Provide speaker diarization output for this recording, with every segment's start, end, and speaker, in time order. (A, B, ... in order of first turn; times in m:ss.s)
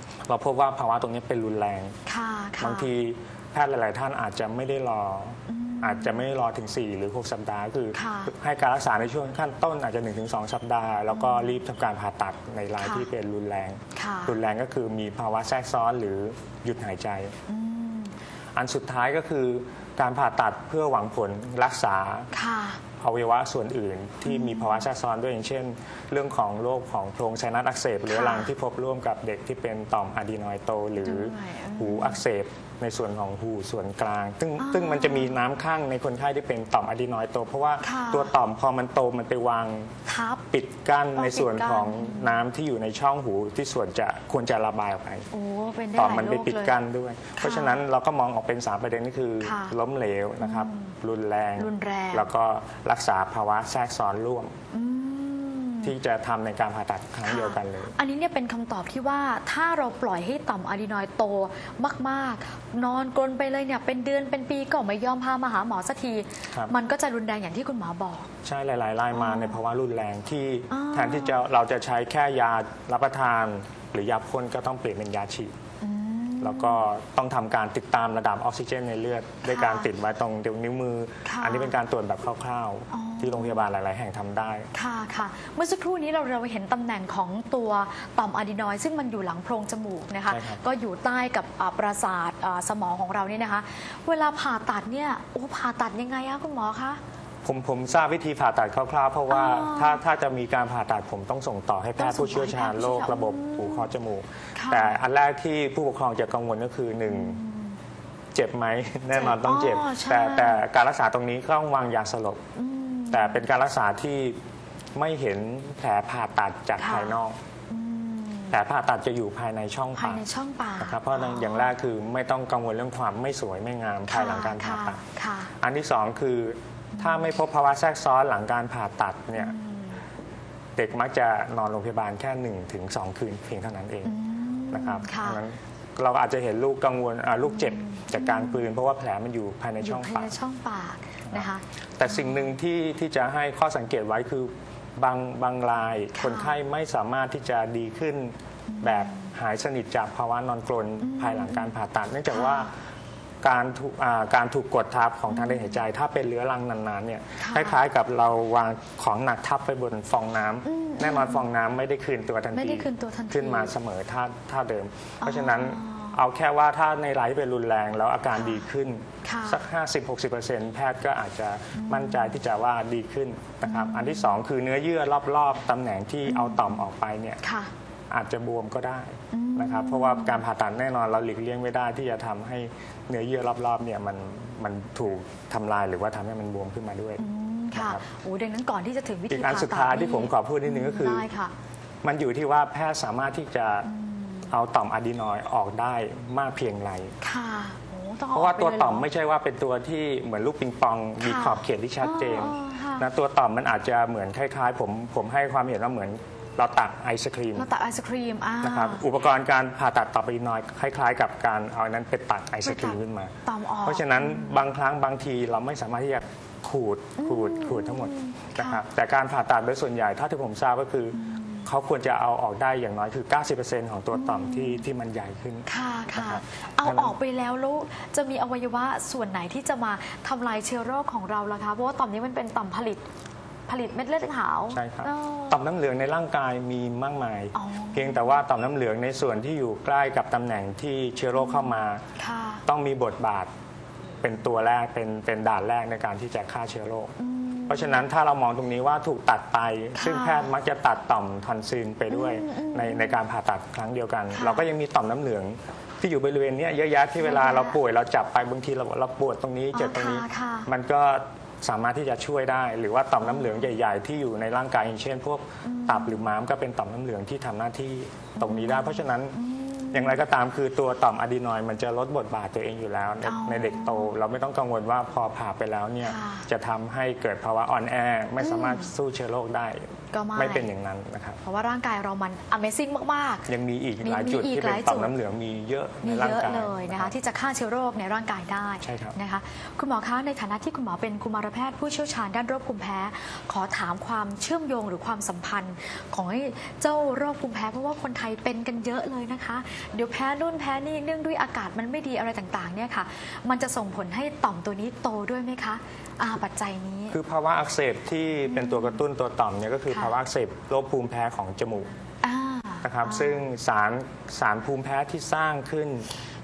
0:00.3-0:01.9 A
0:02.0-0:02.9 B
0:02.6-0:17.3 A
0:05.5-0:06.3 B
0:07.9-0:08.3 B
0:11.1-0:11.6 B
0:12.8-0:13.1 B
0:13.9-0:14.4 B
0:17.5-0:18.1 B
0:18.5-0:22.3 A
0:22.3-0:22.8 B
0:23.0-0:39.9 A
0:24.2-0:24.9 B
0:28.1-0:28.5 B
0:31.0-0:32.2 B
0:34.6-0:35.4 B
0:37.8-0:38.3 B
0:40.0-0:40.5 B
0:40.5-0:45.3 A
0:41.2-0:42.5 B
0:45.3-0:46.8 B
0:45.9-0:54.5 A
0:47.4-0:47.8 B
0:49.4-0:49.8 B
0:50.4-0:50.9 B
0:51.6-0:52.3 B
0:54.7-0:55.9 B
0:55.8-0:57.9 A
0:57.2-1:08.3 B
1:08.4-1:15.5 A
1:09.1-1:09.6 B
1:10.7-1:11.4 B
1:15.8-1:16.8 B
1:16.4-1:24.7 A
1:19.5-1:19.9 B
1:21.2-1:21.8 B
1:22.9-1:23.7 B
1:24.7-1:37.0 B
1:30.3-1:30.6 A
1:37.4-1:47.4 A
1:39.3-1:40.0 B
1:42.0-1:43.9 B
1:44.5-1:45.0 B
1:47.0-1:47.8 B
1:48.3-1:52.4 A
1:49.1-1:50.6 B
1:52.6-1:53.4 B
1:53.1-1:54.4 A
1:55.0-1:57.4 A
1:56.8-1:57.2 B
1:57.7-1:58.6 B
1:58.5-2:00.2 A
2:00.0-2:01.7 B
2:00.8-2:05.0 A
2:04.1-2:05.5 B
2:05.6-2:09.5 A
2:06.9-2:07.4 B
2:09.3-2:10.0 B
2:10.8-2:14.2 A
2:14.0-2:15.4 B
2:14.7-2:20.4 A
2:17.4-2:18.7 B
2:19.8-2:22.5 B
2:21.3-2:32.7 A
2:26.1-2:26.6 B
2:28.7-2:29.3 B
2:31.0-2:31.8 B
2:32.3-2:32.7 B
2:33.4-2:57.4 A
2:35.3-2:35.8 B
2:37.4-2:37.8 B
2:40.6-2:41.5 B
2:42.5-2:43.7 B
2:45.2-2:46.2 B
2:48.4-2:48.6 B
2:49.2-2:49.6 B
2:51.7-2:52.4 B
2:53.6-2:54.4 B
2:56.3-2:56.8 B
2:57.4-2:57.7 B
2:58.1-3:08.0 A
2:59.3-3:00.4 B
3:07.2-3:11.5 B
3:09.3-3:11.3 A
3:12.0-3:13.9 A
3:13.8-3:14.5 B
3:14.5-3:17.1 A
3:17.2-3:19.1 B
3:18.3-3:27.7 A
3:21.2-3:23.1 B
3:27.5-3:29.0 B
3:28.6-3:47.2 A
3:32.6-3:34.7 B
3:37.2-3:38.8 B
3:41.1-3:41.7 B
3:44.1-3:44.8 B
3:45.7-3:53.0 B
3:53.7-3:55.6 B
3:54.7-4:02.0 A
3:57.5-3:58.4 B
4:01.3-4:02.6 B
4:02.6-4:03.5 A
4:04.2-4:07.1 A
4:07.2-4:08.0 B
4:07.7-4:29.4 A
4:10.0-4:10.5 B
4:12.1-4:13.2 B
4:14.3-4:14.7 B
4:17.2-4:17.8 B
4:19.7-4:20.7 B
4:23.2-4:23.7 B
4:25.6-4:26.3 B
4:28.4-4:30.2 B
4:29.9-4:41.4 A
4:33.2-4:34.2 B
4:36.0-4:36.5 B
4:38.4-4:38.9 B
4:40.1-4:40.7 B
4:41.4-4:43.5 B
4:43.5-4:47.1 A
4:44.0-4:45.1 B
4:46.0-5:07.2 B
4:48.8-4:49.2 A
5:07.1-5:11.9 A
5:08.4-5:09.0 B
5:09.9-5:10.2 B
5:12.2-5:13.4 B
5:12.8-5:16.1 A